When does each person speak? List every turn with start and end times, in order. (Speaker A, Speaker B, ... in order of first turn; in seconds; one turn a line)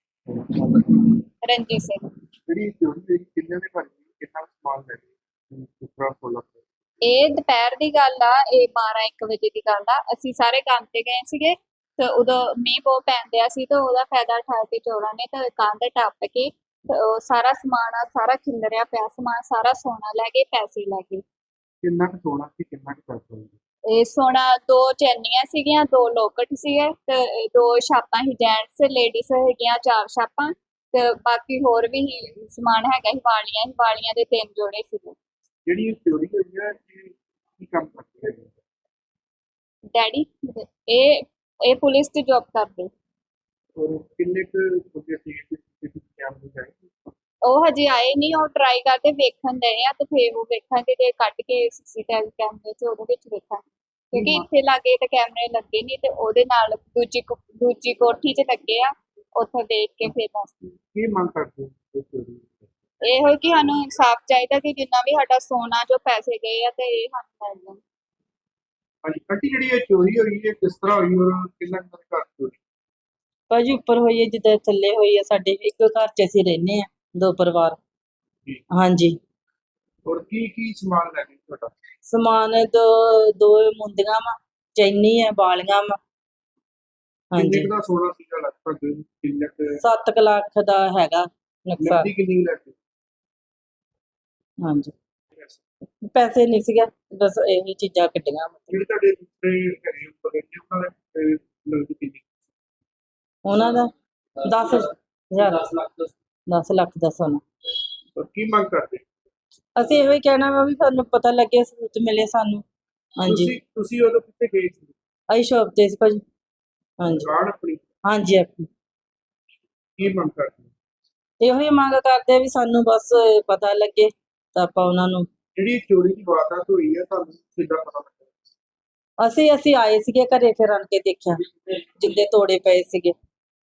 Speaker A: 0.3-0.9
Speaker B: 1.4-2.0
Speaker A: 2.5-6.6
Speaker B: 7.0-21.2
Speaker A: 21.8-23.5
Speaker B: 23.9-35.2
Speaker A: 35.7-38.5
Speaker B: 39.9-42.9
Speaker A: 43.8-47.1
Speaker B: 47.5-60.8
Speaker A: 54.1-54.5
Speaker A: 60.9-62.7
Speaker B: 63.0-67.8
Speaker A: 69.0-72.6
Speaker C: 73.5-77.8
Speaker C: 78.7-79.2
Speaker A: 80.1-81.7
Speaker C: 82.1-86.0
Speaker C: 87.3-87.7
Speaker A: 87.3-89.8
Speaker C: 89.8-92.1
Speaker A: 91.8-92.8
Speaker C: 94.6-94.9
Speaker C: 96.1-98.8
Speaker A: 98.7-102.4
Speaker C: 103.5-105.7
Speaker C: 106.5-107.4
Speaker A: 108.2-109.0
Speaker C: 109.8-112.6
Speaker C: 113.2-113.5
Speaker A: 113.2-115.0
Speaker C: 115.3-116.2
Speaker C: 117.0-117.3
Speaker A: 117.1-117.8
Speaker C: 118.0-118.7
Speaker A: 120.0-120.7
Speaker C: 121.4-125.3
Speaker A: 125.5-128.3
Speaker C: 129.2-133.2